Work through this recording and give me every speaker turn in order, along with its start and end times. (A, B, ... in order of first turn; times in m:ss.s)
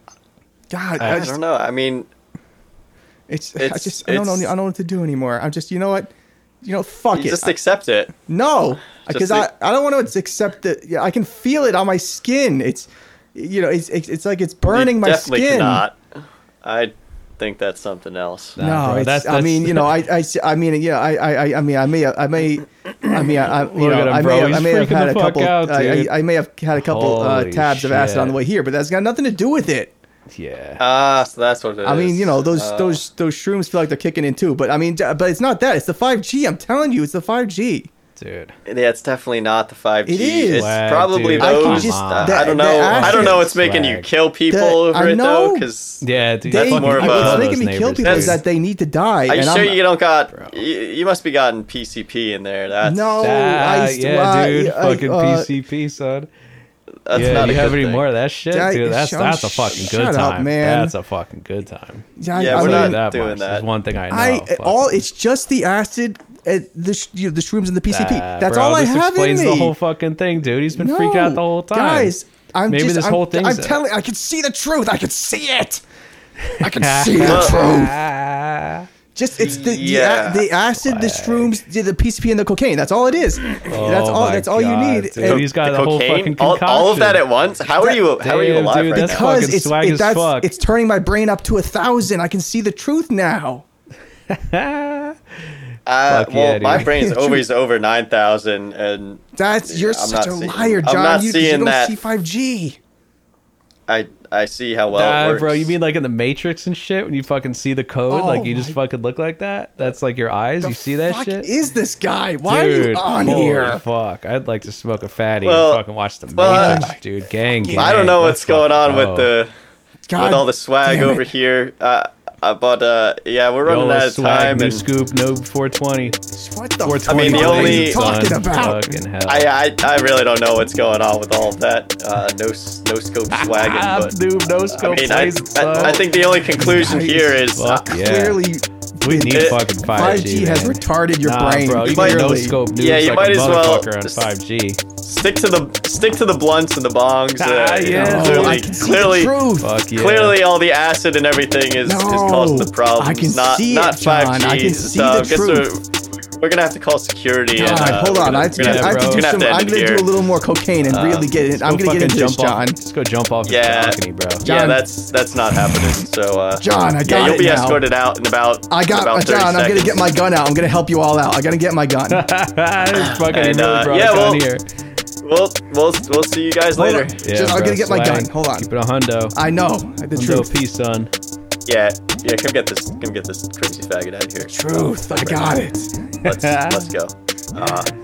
0:00.7-0:01.4 A
0:01.0-0:02.1 B
0:01.0-0:01.3 C
0:03.3-0:06.1 A
0:03.6-0:04.5 B
0:06.6-0:07.6 A
0:07.1-0:08.1 B
0:08.3-0:15.8 A
0:09.0-0:09.5 B
0:14.7-0:16.0 B
0:16.6-0:18.6 B
0:18.6-0:20.0 C
0:18.6-0:29.9 A
0:23.4-0:26.1 C
0:26.8-0:28.4 C
0:30.3-0:30.8 C
0:30.8-0:33.0 B
0:31.8-0:37.9 A
0:38.2-0:38.5 C
0:38.7-0:48.4 B
0:40.0-0:40.7 A
0:40.5-0:44.1 C
0:41.4-0:43.4 A
0:44.5-0:45.7 A
0:46.0-0:48.4 C
0:46.5-0:49.8 A
0:49.3-0:53.2 B
0:50.3-0:50.6 C
0:52.8-0:55.5 A
0:53.2-0:56.3 C
0:57.1-0:58.0 B
0:57.1-1:05.0 C
0:58.5-1:01.0 A
1:02.2-1:03.0 A
1:02.4-1:03.7 B
1:04.1-1:09.8 A
1:07.9-1:12.1 C
1:10.7-1:15.8 A
1:12.7-1:13.8 C
1:16.6-1:18.9 C
1:16.6-1:18.0 A
1:17.2-1:17.6 B
1:19.2-1:25.5 A
1:19.4-1:20.5 B
1:20.8-1:21.6 C
1:23.6-1:27.3 C
1:25.2-1:29.5 B
1:27.8-1:30.5 C
1:29.0-1:33.6 A
1:34.3-1:35.2 C
1:35.9-1:42.0 B
1:36.1-1:37.1 C
1:36.7-1:37.4 A
1:39.4-1:42.8 A
1:43.9-1:45.8 B
1:44.9-1:51.5 C
1:48.1-1:48.8 A
1:50.6-1:53.8 A
1:52.4-1:59.3 C
1:55.4-1:56.9 B
1:56.4-1:57.9 A
1:57.7-1:59.5 B
2:00.1-2:01.2 A
2:00.2-2:04.8 B
2:03.6-2:06.2 C
2:06.3-2:09.0 A
2:06.8-2:09.5 C
2:07.1-2:08.1 B
2:09.2-2:14.2 B
2:13.3-2:16.0 C
2:14.7-2:17.9 B
2:16.6-2:16.8 C
2:16.6-2:22.6 A
2:17.5-2:18.4 C
2:19.0-2:24.8 C
2:19.3-2:19.6 B
2:21.8-2:24.3 B
2:25.0-2:29.4 B
2:27.4-2:28.8 C
2:27.9-2:29.7 A
2:29.6-2:30.4 C
2:29.9-2:35.9 B
2:31.8-2:35.7 A
2:36.4-2:40.1 B
2:37.6-2:42.8 A
2:38.6-2:39.3 C
2:40.9-2:41.3 B
2:41.5-2:44.5 C
2:43.4-2:50.1 B
2:44.4-2:44.8 A
2:46.6-2:47.8 A
2:48.7-2:52.3 A
2:52.1-2:54.6 C
2:53.3-2:54.5 B
2:55.2-2:57.2 B
2:56.8-2:58.7 A
2:57.2-2:59.4 C
2:59.3-3:00.5 A
3:00.1-3:01.1 C
3:01.7-3:05.6 B
3:04.4-3:05.9 A
3:06.2-3:07.9 B
3:06.3-3:06.9 C